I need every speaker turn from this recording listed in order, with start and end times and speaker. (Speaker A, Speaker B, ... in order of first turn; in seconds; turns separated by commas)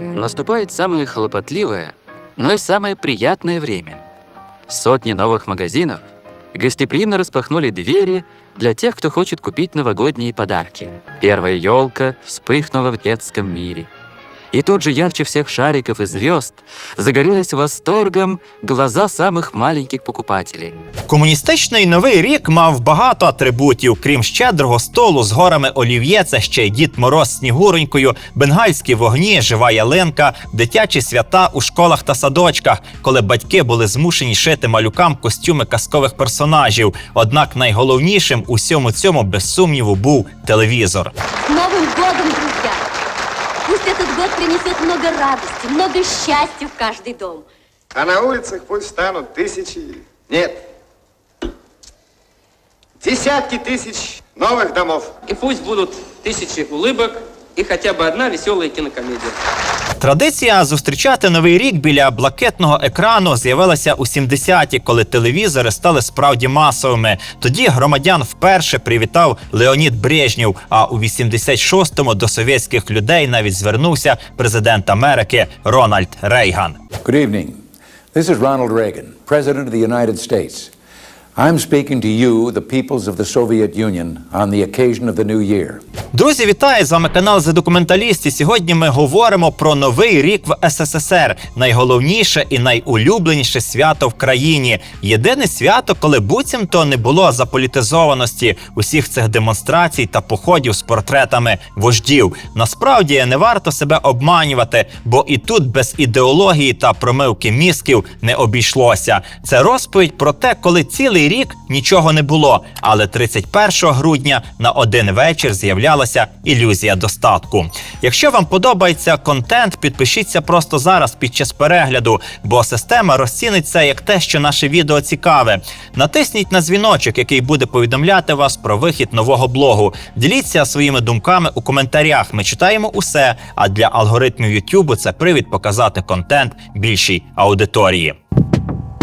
Speaker A: 0.1-4.0, Speaker A: 4.7-6.0, Speaker A: 6.5-13.9, Speaker A: 14.5-20.7, Speaker B: 21.1-41.1, Speaker C: 41.5-42.9, Speaker C: 43.6-47.5, Speaker D: 47.9-50.6, Speaker D: 53.0-55.1, Speaker E: 55.3-59.4, Speaker B: 60.0-76.8, Speaker F: 77.0-77.6, Speaker F: 78.1-80.7, Speaker F: 81.3-85.8, Speaker B: 86.1-138.2